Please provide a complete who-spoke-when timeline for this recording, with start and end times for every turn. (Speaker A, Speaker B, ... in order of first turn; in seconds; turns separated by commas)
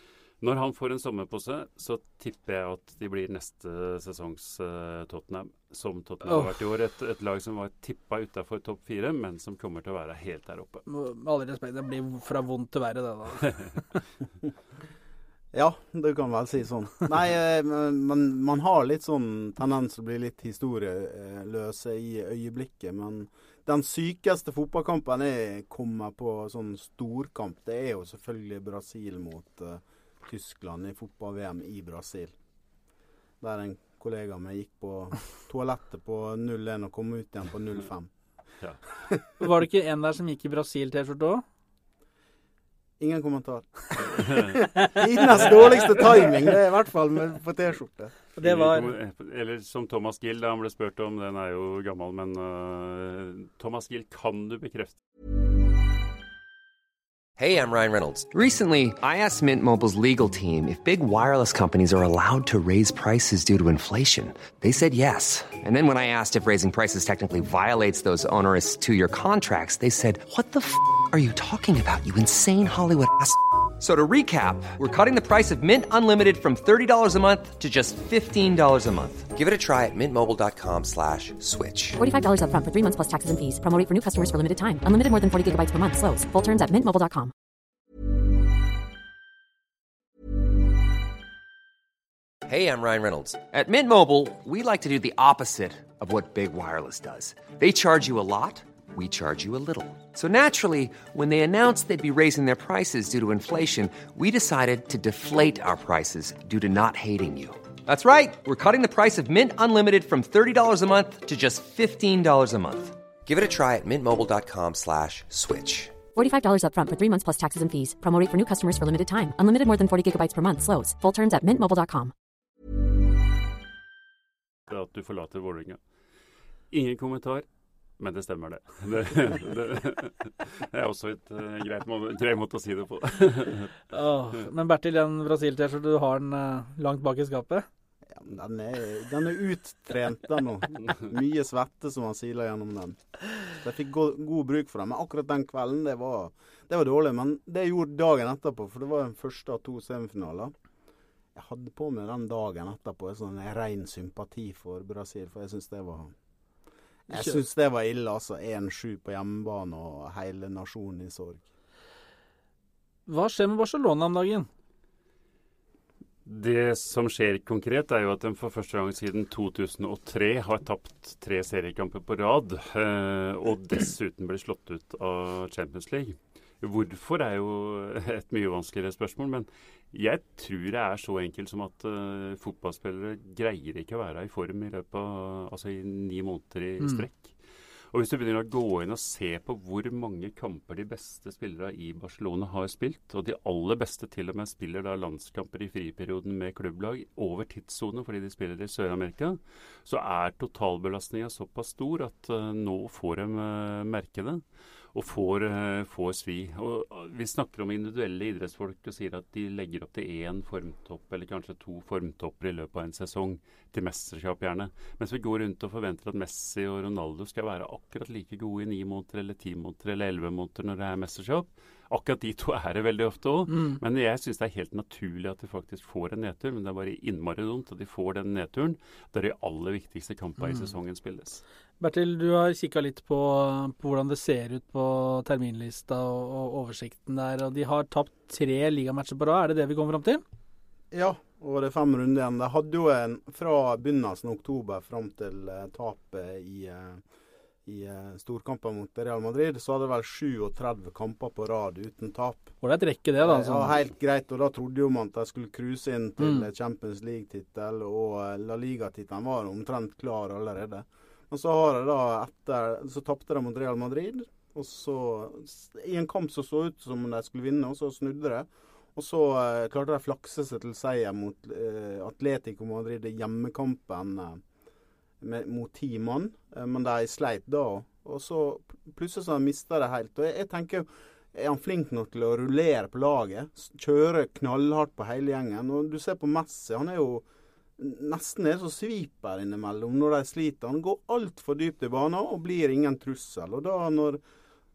Speaker A: 0.4-10.9, Speaker B: 10.9-13.8, Speaker C: 15.5-32.3, Speaker C: 33.4-38.1, Speaker B: 39.4-41.4, Speaker C: 43.0-48.1, Speaker A: 44.3-44.6, Speaker B: 48.4-48.9, Speaker A: 48.4-55.0, Speaker D: 57.4-82.0, Speaker E: 82.0-87.3, Speaker D: 92.5-116.0, Speaker E: 116.1-122.1, Speaker A: 124.7-125.8, Speaker A: 126.7-127.5, Speaker A: 128.0-133.7, Speaker B: 133.9-137.7, Speaker C: 138.1-150.5, Speaker C: 151.3-156.1, Speaker C: 157.1-161.4, Speaker B: 157.1-157.4, Speaker B: 163.1-164.5, Speaker A: 166.2-187.4, Speaker A: 187.9-204.4, Speaker A: 204.9-231.4, Speaker B: 223.5-223.8, Speaker B: 231.8-240.2, Speaker C: 240.9-247.0, Speaker C: 247.7-252.5, Speaker B: 252.6-253.8, Speaker C: 253.2-274.4, Speaker B: 256.2-256.5, Speaker C: 275.2-287.2, Speaker C: 287.8-294.2